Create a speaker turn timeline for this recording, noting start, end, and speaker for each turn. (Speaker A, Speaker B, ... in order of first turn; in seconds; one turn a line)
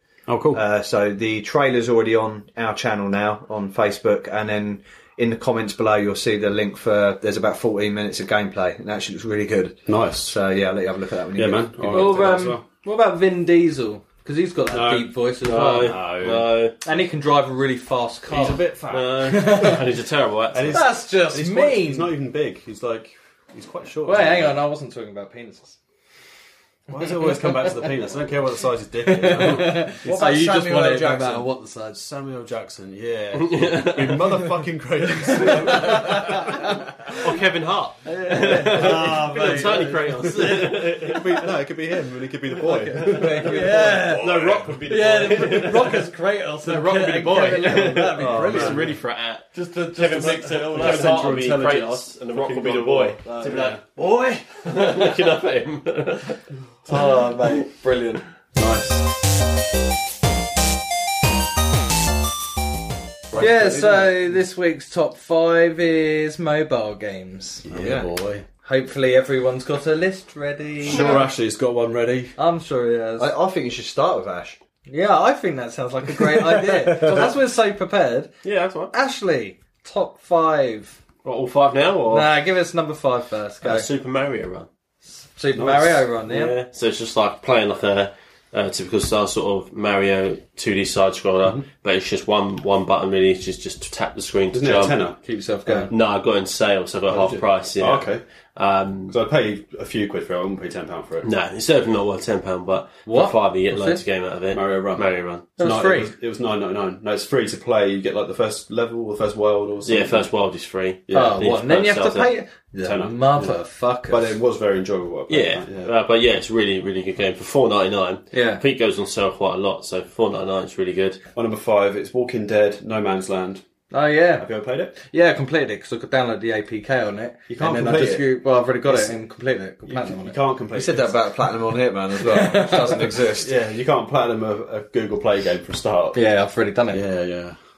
Speaker A: 0.3-0.6
Speaker B: 0.5-12.4
Speaker A: 9.9-10.4
Speaker A: 11.3-12.6
Speaker C: 11.9-16.0
Speaker A: 14.7-15.2
Speaker D: 15.4-16.8
Speaker A: 15.7-16.5
Speaker C: 16.8-18.6
Speaker A: 18.3-19.7
Speaker D: 18.9-20.9
Speaker C: 19.2-19.8
Speaker A: 20.5-24.6
Speaker C: 20.7-22.1
Speaker C: 24.0-25.8
Speaker A: 26.9-30.3
Speaker C: 27.0-27.8
Speaker C: 29.0-32.0
Speaker B: 30.0-31.5
Speaker A: 31.9-36.7
Speaker D: 33.4-34.3
Speaker C: 35.3-37.1
Speaker D: 37.1-41.5
Speaker C: 38.0-41.2
Speaker A: 38.5-45.9
Speaker C: 42.6-44.3
Speaker B: 43.0-44.2
Speaker D: 44.1-46.1
Speaker C: 44.9-48.9
Speaker D: 46.6-53.8
Speaker A: 48.1-49.0
Speaker C: 49.5-51.7
Speaker A: 50.5-52.7
Speaker C: 52.3-55.2
Speaker A: 53.4-53.8
Speaker D: 54.6-56.4
Speaker C: 56.9-58.2
Speaker A: 58.5-59.0
Speaker B: 63.3-64.1
Speaker C: 63.4-67.6
Speaker A: 67.6-68.5
Speaker B: 67.7-68.1
Speaker C: 68.6-71.3
Speaker A: 70.8-72.3
Speaker C: 72.3-73.3
Speaker B: 73.2-74.6
Speaker C: 74.9-78.3
Speaker B: 76.5-77.3
Speaker D: 78.4-78.9
Speaker C: 78.9-81.0
Speaker D: 81.2-82.3
Speaker C: 82.1-83.9
Speaker D: 83.6-84.7
Speaker C: 85.3-86.5
Speaker A: 85.5-86.1
Speaker D: 86.3-95.0
Speaker A: 94.5-95.2
Speaker C: 95.2-95.9
Speaker D: 95.9-99.1
Speaker A: 97.1-98.2
Speaker A: 99.1-101.3
Speaker D: 101.2-105.5
Speaker C: 103.1-104.0
Speaker A: 104.5-110.3
Speaker C: 105.6-106.1
Speaker D: 109.8-112.3
Speaker A: 111.1-111.5
Speaker C: 111.1-114.3
Speaker A: 112.8-113.6
Speaker A: 114.1-115.9
Speaker D: 115.3-121.2
Speaker C: 118.3-118.6
Speaker A: 121.3-123.6
Speaker C: 123.9-130.3
Speaker A: 124.4-124.9
Speaker A: 127.5-128.2
Speaker A: 128.8-129.1
Speaker A: 129.8-131.2
Speaker B: 130.7-133.5
Speaker C: 132.2-133.1
Speaker A: 133.4-136.2
Speaker C: 136.1-137.0
Speaker A: 136.9-137.6